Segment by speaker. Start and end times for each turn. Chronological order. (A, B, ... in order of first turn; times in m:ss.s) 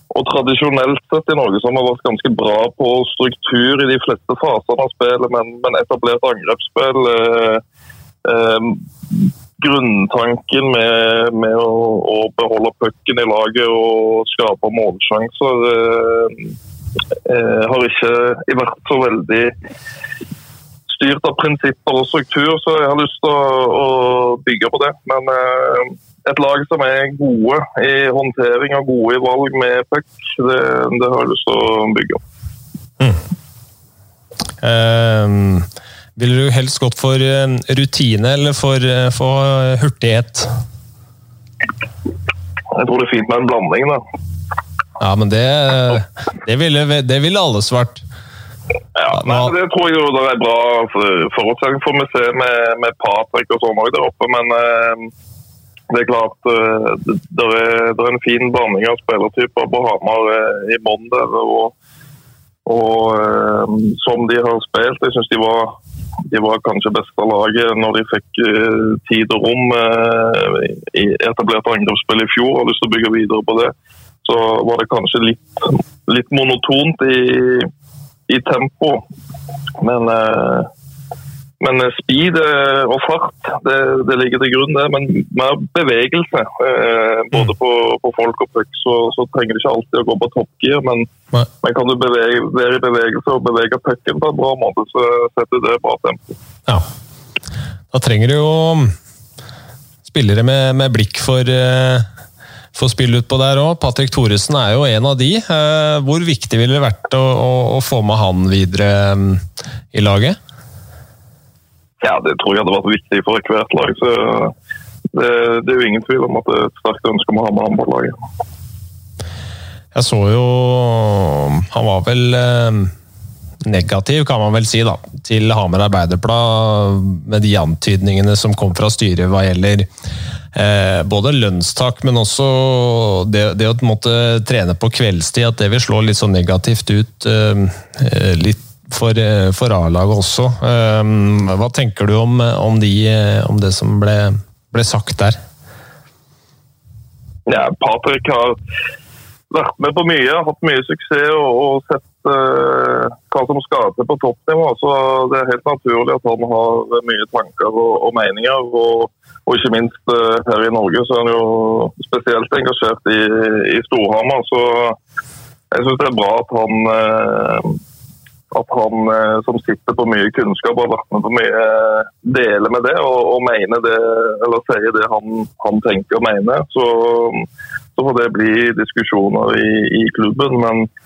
0:00.1-0:07.6 A
0:08.2-0:08.8 A
0:09.6-0:16.4 A
0:17.3-0:19.5 A
0:20.9-0:32.2 A
0:34.6-0:40.5 B
0:42.7-0:44.0 A
0:45.0-0:48.0 B
0:49.0-0:55.1 A
0:49.1-0:49.5 B
0:55.9-1:01.7 A
1:02.7-1:05.8 A
1:06.3-1:13.7 A
1:14.2-1:17.7 A
1:18.3-1:19.0 A
1:19.8-1:20.7 A
1:21.6-1:31.1 A
1:31.6-1:36.4 A
1:37.9-1:38.9 B
1:40.1-1:42.1 B
1:42.8-1:50.4 B
1:52.0-1:54.5 A
1:55.1-1:58.2 A
1:59.9-2:02.9 B
2:03.6-2:09.9 B
2:10.5-2:25.4 B
2:27.5-2:28.6 A
2:29.5-2:45.0 A
2:45.7-2:47.8 A
2:48.5-3:00.9 A